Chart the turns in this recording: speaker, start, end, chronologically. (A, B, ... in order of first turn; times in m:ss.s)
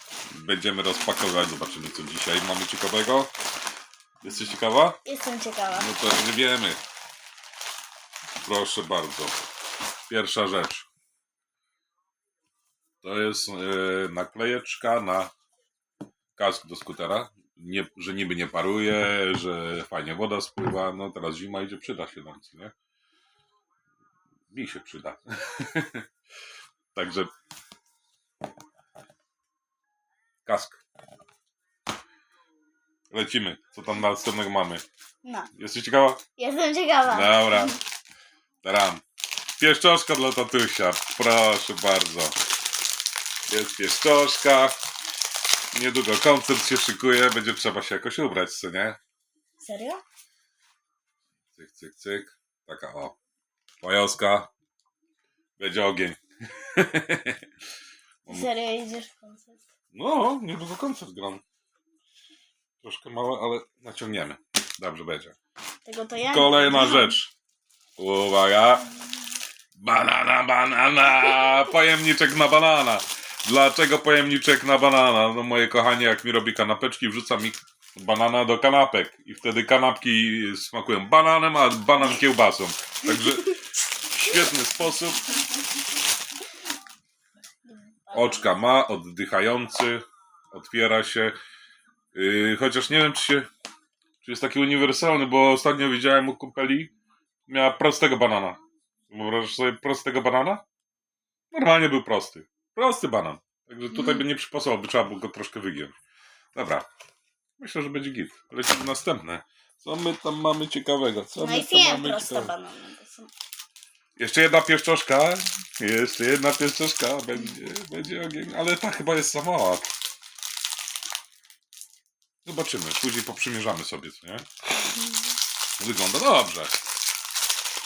0:00.3-0:03.3 A
0:04.2-0:05.0 A
0:05.0-0:05.9 B
0:05.7-0:06.8 A
0:08.4-0:09.4 A
0:10.1-0:10.8 A
0:13.0-0:15.3 A
0:16.4-0:22.7 A
0:24.5-0:26.0 A
0:26.9-0:27.3 A
0:30.4-0:30.8 A
0:33.1-0:34.8 A
0:35.2-0:35.5 B
0:35.5-0:36.2 A
0:36.4-0:37.8 B
0:37.0-0:37.8 A
0:38.6-0:39.0 A
0:39.6-0:42.3 A
0:43.5-0:44.8 A
0:45.7-0:49.0 A
0:49.6-0:50.0 B
0:51.5-0:53.1 A
0:53.8-0:54.5 A
0:55.6-0:57.4 A
0:58.3-0:59.6 B
0:59.9-1:01.4 A
1:02.8-1:05.4 A
1:05.8-1:07.1 B
1:06.3-1:07.3 A
1:08.0-1:08.8 A
1:09.7-1:25.2 A
1:27.7-1:28.6 B
1:28.1-1:31.3 A
1:32.1-1:33.5 A
1:34.2-1:36.9 A
1:37.5-1:38.6 A
1:39.1-1:40.6 A
1:41.5-1:45.9 A
1:43.9-1:44.2 B
1:46.5-1:46.9 A
1:47.6-1:52.5 A
1:51.4-1:53.3 B
1:54.2-1:59.9 A
2:02.4-2:04.4 A
2:04.8-2:05.2 B
2:05.8-2:06.8 A